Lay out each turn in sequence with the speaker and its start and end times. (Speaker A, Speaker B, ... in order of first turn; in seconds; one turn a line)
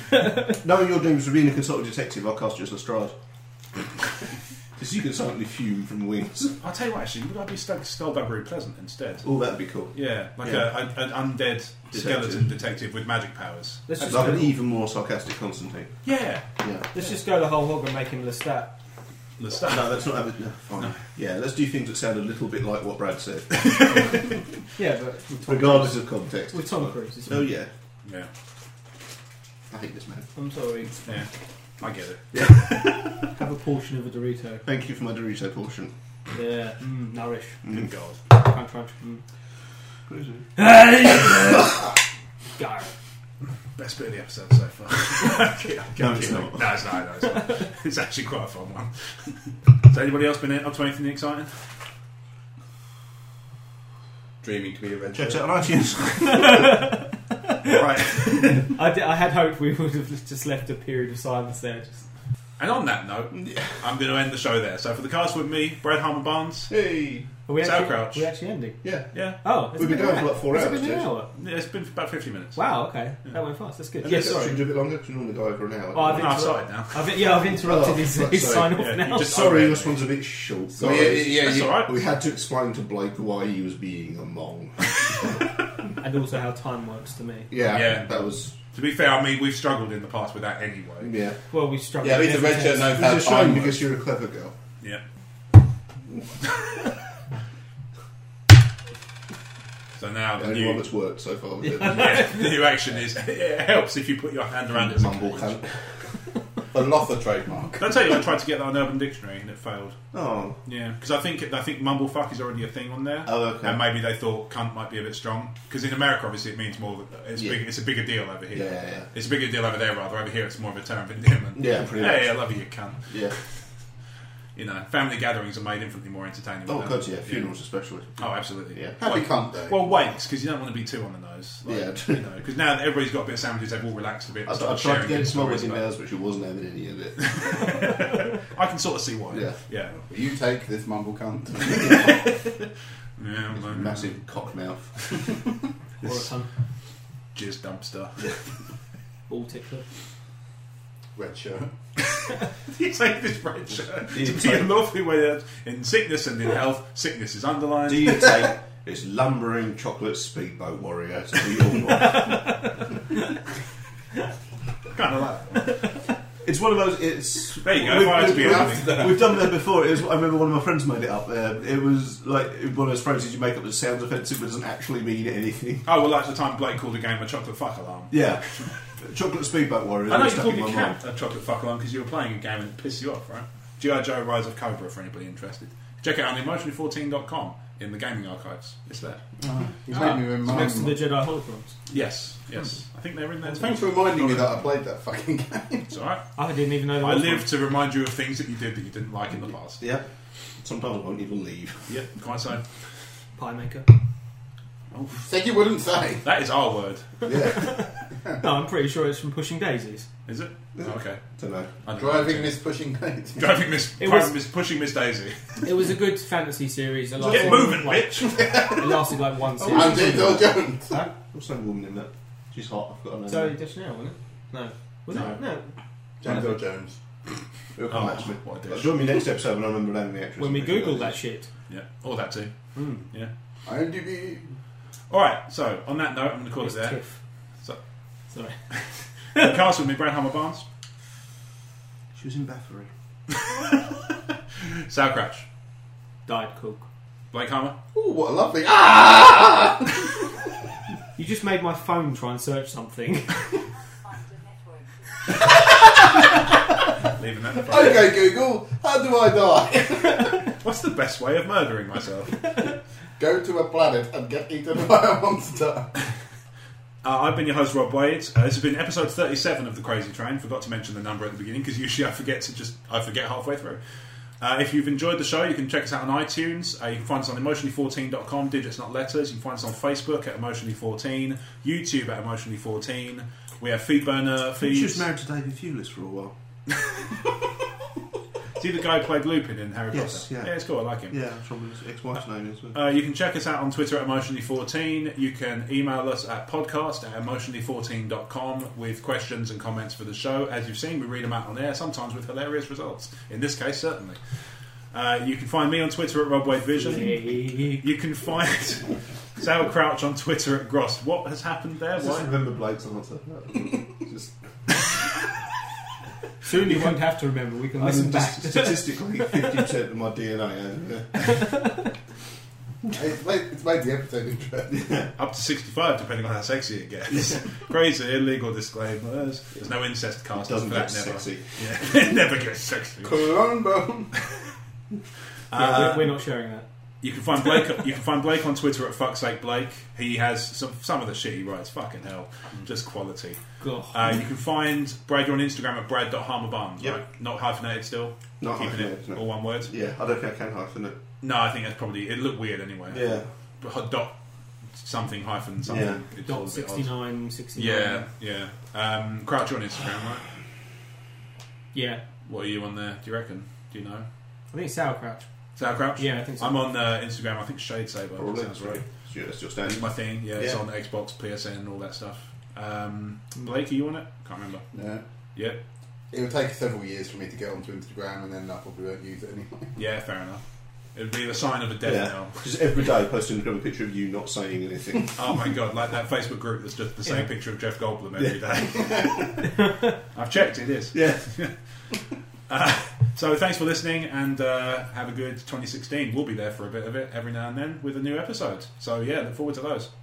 Speaker A: 0.1-0.6
Speaker B: 0.6-3.1
Speaker B: 4.8-6.6
Speaker C: 6.6-9.3
Speaker B: 9.2-10.7
Speaker C: 9.9-14.5
Speaker B: 11.9-12.5
Speaker A: 13.9-14.5
Speaker B: 14.0-15.9
Speaker C: 16.0-16.4
Speaker B: 16.6-16.9
Speaker A: 16.9-18.8
Speaker C: 19.4-20.0
Speaker B: 19.7-24.4
Speaker C: 23.5-24.4
Speaker A: 24.8-27.5
Speaker B: 25.4-27.7
Speaker B: 29.7-30.3
Speaker A: 30.4-31.1
Speaker C: 31.8-33.0
Speaker B: 32.3-33.2
Speaker A: 33.4-34.6
Speaker B: 34.6-35.9
Speaker A: 36.3-37.6
Speaker C: 37.7-38.2
Speaker A: 38.3-39.2
Speaker B: 40.1-40.5
Speaker A: 40.6-41.9
Speaker A: 42.6-42.9
Speaker C: 43.8-51.6
Speaker B: 46.0-46.7
Speaker D: 54.4-55.5
Speaker B: 55.1-56.8
Speaker A: 56.2-57.8
Speaker C: 57.6-58.7
Speaker A: 58.4-62.0
Speaker C: 62.6-66.7
Speaker B: 63.3-63.8
Speaker B: 66.7-67.3
Speaker A: 67.5-68.8
Speaker C: 67.6-68.3
Speaker B: 68.8-69.1
Speaker C: 69.1-69.4
Speaker A: 69.4-71.3
Speaker B: 69.7-71.1
Speaker C: 71.3-72.6
Speaker A: 72.5-74.6
Speaker B: 74.0-76.4
Speaker A: 75.9-79.5
Speaker C: 76.1-77.1
Speaker B: 77.5-85.2
Speaker C: 78.8-80.0
Speaker C: 80.8-82.0
Speaker D: 80.8-81.8
Speaker A: 86.0-87.5
Speaker B: 87.5-88.5
Speaker C: 87.7-91.1
Speaker B: 91.0-91.4
Speaker A: 91.5-92.9
Speaker D: 92.0-93.9
Speaker B: 93.0-94.5
Speaker C: 100.0-100.9
Speaker B: 100.4-102.3
Speaker A: 101.7-102.5
Speaker C: 101.8-105.6
Speaker B: 104.7-105.9
Speaker D: 106.7-107.9
Speaker C: 107.8-110.0
Speaker B: 110.1-110.6
Speaker C: 110.6-123.6
Speaker B: 113.3-113.8
Speaker B: 117.4-117.6
Speaker B: 118.5-119.1
Speaker B: 121.5-122.4
Speaker B: 123.1-123.3
Speaker C: 124.5-127.5
Speaker B: 126.7-128.2
Speaker C: 128.2-135.9
Speaker D: 129.0-129.9
Speaker B: 131.7-132.2
Speaker B: 134.4-137.2
Speaker C: 137.2-140.0
Speaker B: 139.3-139.6
Speaker D: 139.9-142.3
Speaker B: 141.8-142.1
Speaker C: 143.2-144.2
Speaker B: 143.5-145.3
Speaker A: 146.0-146.5
Speaker C: 147.3-148.3
Speaker A: 149.3-149.8
Speaker D: 151.2-151.7
Speaker C: 152.7-158.4
Speaker B: 154.1-154.7
Speaker B: 157.9-162.7
Speaker A: 162.1-162.8
Speaker C: 164.9-165.8
Speaker B: 166.4-175.9
Speaker C: 167.6-169.3
Speaker D: 168.3-168.6
Speaker C: 175.8-178.7
Speaker B: 178.1-181.0
Speaker C: 180.1-189.3
Speaker D: 189.4-191.0
Speaker C: 189.9-190.9
Speaker A: 190.0-191.8
Speaker C: 191.9-194.6
Speaker D: 193.4-195.9
Speaker C: 195.9-196.2
Speaker A: 196.4-197.5
Speaker C: 197.0-199.8
Speaker B: 199.8-200.1
Speaker B: 200.6-201.9
Speaker C: 201.9-202.7
Speaker A: 203.4-203.9
Speaker C: 204.9-205.3
Speaker D: 205.2-206.2
Speaker C: 206.2-207.1
Speaker B: 207.2-207.8
Speaker A: 207.4-210.1
Speaker C: 210.3-211.2
Speaker B: 210.8-211.7
Speaker C: 211.8-212.6
Speaker D: 211.9-213.6
Speaker C: 213.4-215.6
Speaker A: 214.0-214.3
Speaker A: 215.6-220.4
Speaker C: 217.2-218.7
Speaker D: 218.2-218.9
Speaker B: 219.6-223.6
Speaker D: 219.6-221.0
Speaker A: 223.3-225.7
Speaker D: 226.2-227.0
Speaker B: 227.8-231.2
Speaker C: 227.9-229.0
Speaker A: 230.4-231.5
Speaker C: 231.7-232.5
Speaker A: 232.8-233.1
Speaker D: 233.7-234.4
Speaker C: 235.1-237.0
Speaker A: 236.6-237.2
Speaker A: 238.3-238.6
Speaker A: 239.3-239.5
Speaker C: 239.3-240.7
Speaker B: 242.2-242.9
Speaker C: 243.6-245.4
Speaker A: 246.3-246.8
Speaker C: 247.3-247.8
Speaker D: 247.9-250.2
Speaker A: 251.2-253.6
Speaker D: 255.5-256.3
Speaker C: 257.1-258.2
Speaker D: 257.6-260.5
Speaker C: 260.6-262.6
Speaker D: 263.2-265.9
Speaker C: 267.0-273.8
Speaker C: 274.4-285.1
Speaker B: 284.6-286.4
Speaker C: 288.6-291.1
Speaker B: 289.9-290.5
Speaker B: 291.1-292.8
Speaker C: 292.7-304.2
Speaker C: 304.9-307.3
Speaker A: 306.8-307.8
Speaker C: 307.8-312.3
Speaker B: 312.0-314.3
Speaker A: 316.4-319.6
Speaker B: 316.6-317.0
Speaker B: 317.8-321.5
Speaker A: 321.3-321.7
Speaker D: 322.9-325.0
Speaker B: 324.7-325.1
Speaker C: 325.2-333.3
Speaker B: 330.4-331.4
Speaker D: 333.0-334.1
Speaker C: 335.5-336.2
Speaker A: 335.5-336.6
Speaker C: 337.0-343.4
Speaker A: 343.6-344.2
Speaker C: 343.9-349.7
Speaker B: 348.4-351.0
Speaker C: 351.2-354.1
Speaker B: 352.9-353.3
Speaker C: 354.8-356.9
Speaker B: 355.7-356.0
Speaker A: 356.3-358.1
Speaker C: 357.5-360.2
Speaker A: 361.7-362.0
Speaker C: 362.2-364.1
Speaker A: 364.5-365.3
Speaker C: 365.6-368.8
Speaker A: 366.0-366.6
Speaker B: 368.2-370.6
Speaker C: 369.7-374.6
Speaker D: 374.7-375.0
Speaker D: 376.1-379.7
Speaker C: 379.8-380.4
Speaker C: 380.9-382.4
Speaker B: 381.8-385.2
Speaker C: 385.2-389.5
Speaker C: 390.1-391.5
Speaker B: 390.9-391.2
Speaker C: 392.5-399.9